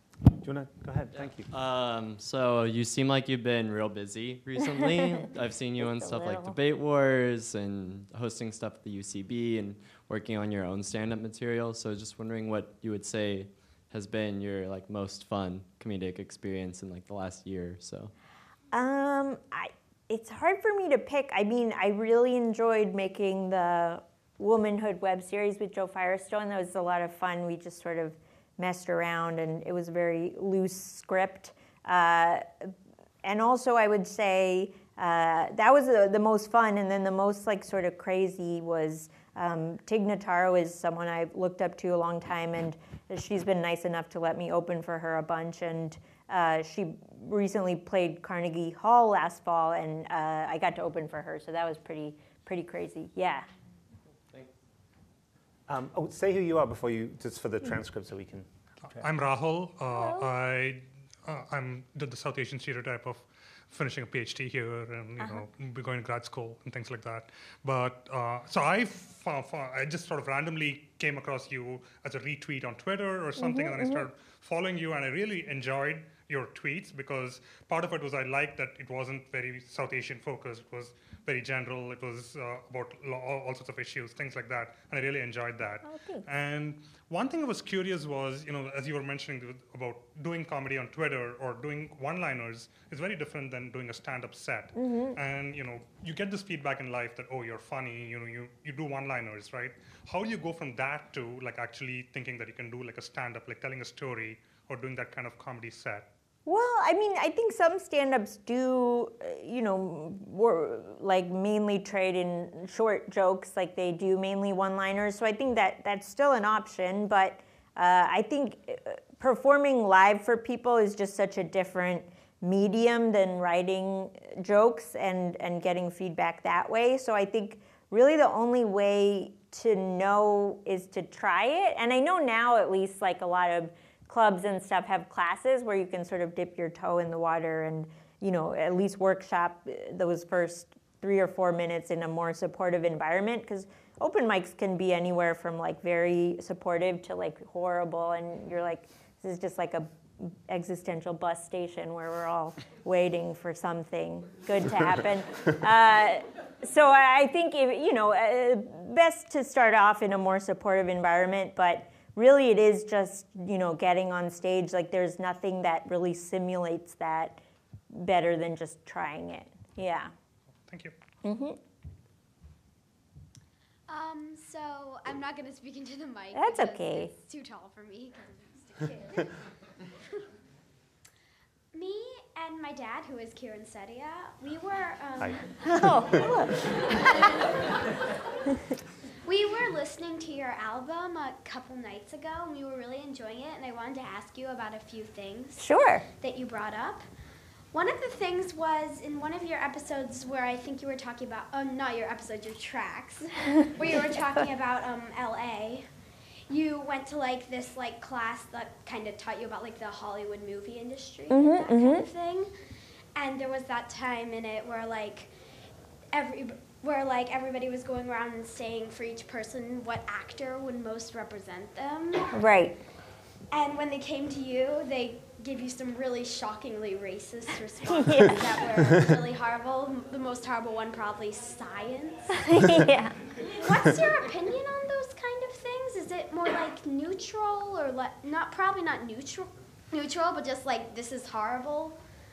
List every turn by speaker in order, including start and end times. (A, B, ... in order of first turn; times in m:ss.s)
0:00.4-0:01.5 A
0:01.2-0:18.1 B
0:05.8-0:06.6 C
0:18.7-0:32.7 C
0:33.2-0:53.5 C
0:55.7-0:59.1 A
0:58.8-1:46.1 D
0:59.9-1:00.3 C
1:05.2-1:05.4 C
1:13.4-1:14.1 C
1:25.8-1:26.3 C
1:34.8-1:35.2 C
1:46.5-2:50.1 C
2:50.7-2:50.9 D
2:51.2-2:51.6 C
2:53.9-2:59.3 E
2:56.3-2:57.1 C
3:01.7-3:05.5 E
3:05.2-3:06.2 A
3:05.6-3:06.6 C
3:06.9-3:07.5 E
3:09.2-3:17.0 E
3:15.6-3:16.0 C
3:17.7-3:25.9 E
3:26.5-3:32.5 E
3:31.3-3:32.0 C
3:33.2-3:35.3 E
3:36.1-3:42.4 E
3:42.3-3:42.8 C
3:43.5-3:52.7 E
3:48.0-3:48.4 C
3:52.3-3:53.2 C
3:53.4-4:02.0 E